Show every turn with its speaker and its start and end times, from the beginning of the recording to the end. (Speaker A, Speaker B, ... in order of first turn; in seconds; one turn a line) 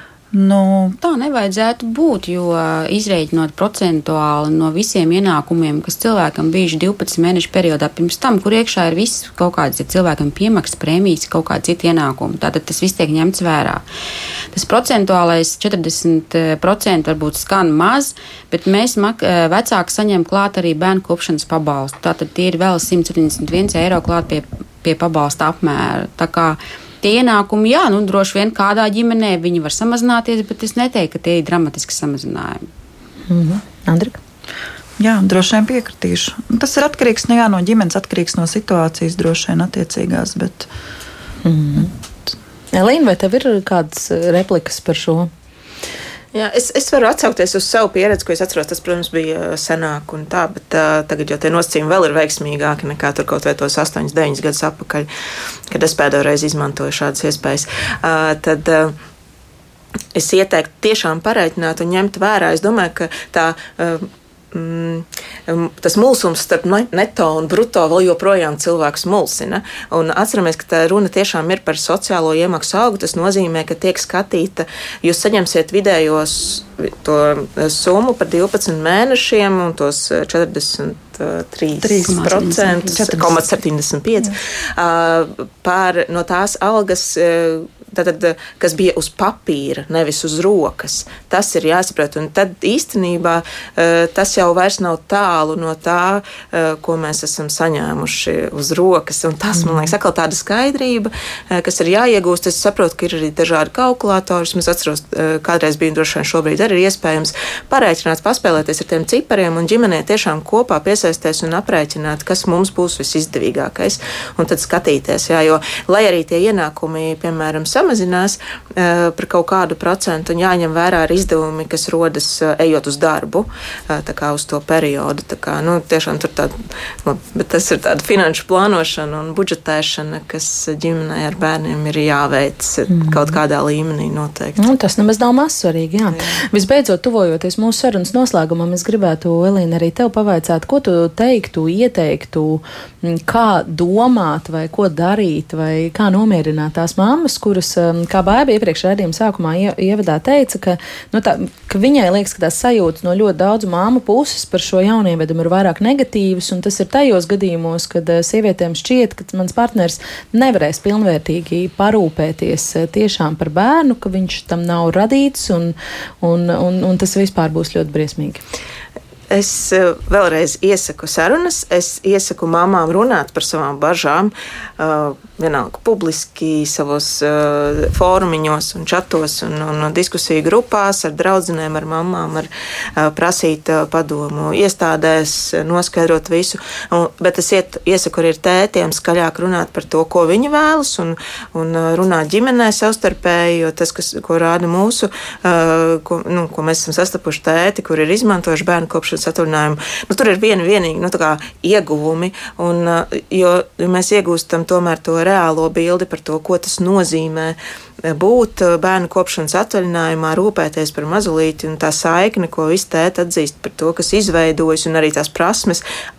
Speaker A: 0.3-1.0
Speaker B: 1.0-13.8
Speaker B: 14.5-32.7
Speaker C: 33.3-34.2
Speaker A: 35.0-40.7
Speaker C: 41.4-41.9
Speaker C: 42.7-45.3
Speaker D: 46.3-55.1
Speaker D: 55.7-59.0
Speaker D: 60.1-134.6
Speaker B: 81.8-83.4
Speaker C: 99.6-99.9
Speaker C: 132.9-133.3
Speaker C: 134.6-168.4
Speaker D: 169.3-215.8